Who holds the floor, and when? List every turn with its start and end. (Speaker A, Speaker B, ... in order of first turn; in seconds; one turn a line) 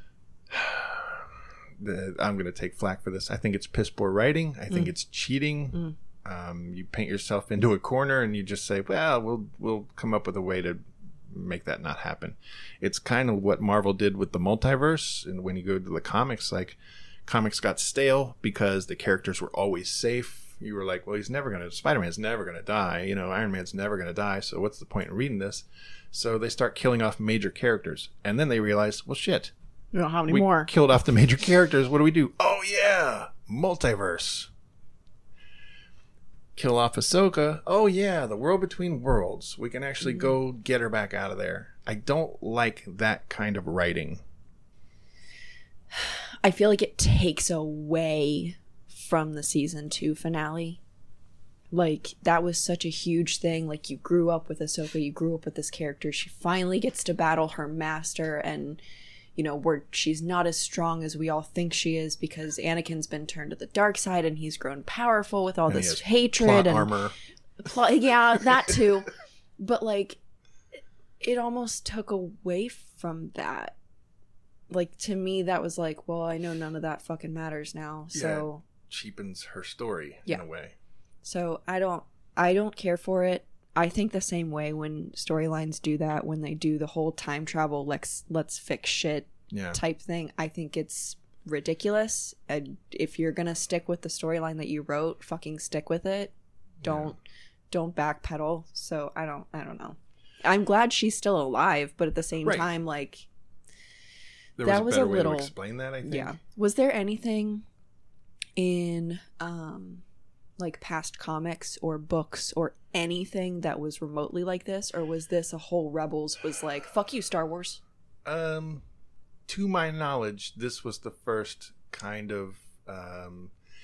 Speaker A: 0.5-29.5
Speaker B: 29.9-30.7
Speaker A: 30.3-34.5
Speaker A: 36.5-44.2
Speaker B: 45.9-50.8
Speaker B: 51.7-58.8
Speaker B: 59.4-66.9
Speaker A: 65.7-67.2
Speaker B: 67.6-70.2
Speaker B: 71.2-73.7
Speaker B: 74.7-78.6
Speaker A: 78.1-80.8
Speaker B: 81.2-96.3
Speaker A: 89.5-89.8
Speaker A: 96.8-97.2
Speaker B: 96.8-97.2
Speaker B: 97.7-103.3
Speaker A: 102.4-102.7
Speaker A: 104.6-106.4
Speaker B: 104.6-105.5
Speaker B: 106.0-107.6
Speaker B: 108.6-110.0
Speaker B: 110.6-117.8
Speaker A: 118.2-118.8
Speaker A: 119.5-123.5